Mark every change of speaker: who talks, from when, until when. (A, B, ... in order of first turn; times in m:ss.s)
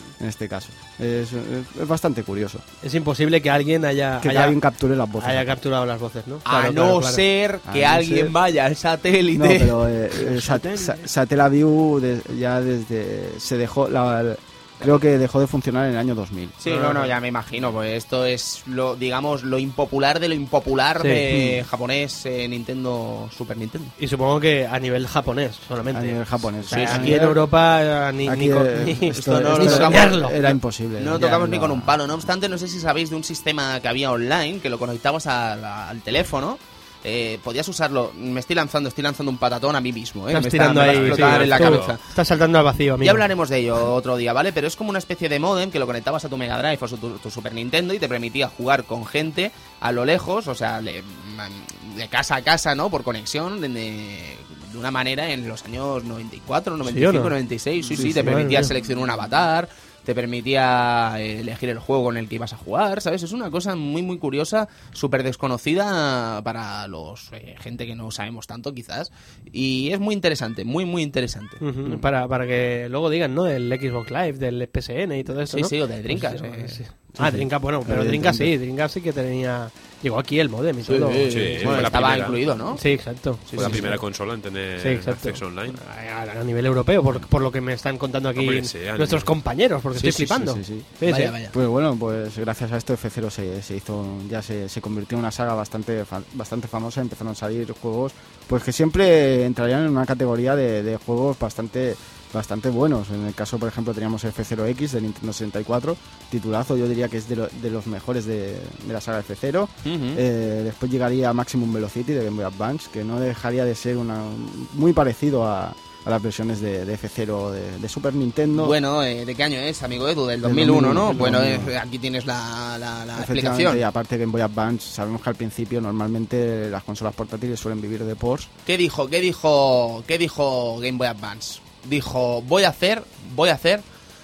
0:00.2-0:02.6 A
0:02.8-0:04.6 B
0:04.2-0:05.6 A
0:05.2-0:07.2 B
0:06.4-0:09.8 C
0:07.6-0:08.3 A
0:09.3-0:16.6 A
0:10.2-0:11.0 B
0:16.6-0:23.9 C
0:16.6-0:17.2 B
0:21.0-0:21.5 B
0:24.0-0:30.4 B
0:25.9-0:27.4 A
0:26.7-0:27.3 C
0:28.2-0:32.0 A
0:29.1-0:42.0 C
0:40.3-0:43.3 B
0:40.9-0:42.0 D
0:43.0-1:12.0 C
0:56.8-0:57.4 B
0:57.9-0:58.7 B
1:11.6-1:21.8 B
1:15.5-1:16.8 C
1:17.1-1:18.5 A
1:20.8-1:22.8 C
1:21.2-1:22.4 D
1:22.8-1:24.0 B
1:23.4-1:23.8 C
1:23.5-1:25.8 D
1:23.6-1:23.9 A
1:24.8-1:31.3 B
1:28.4-1:29.3 D
1:30.0-1:30.9 A
1:31.0-1:31.5 C
1:31.5-1:58.8 A
1:49.8-1:50.2 C
1:58.5-2:03.8 C
2:00.4-2:01.7 A
2:03.1-2:08.5 A
2:08.6-2:13.8 C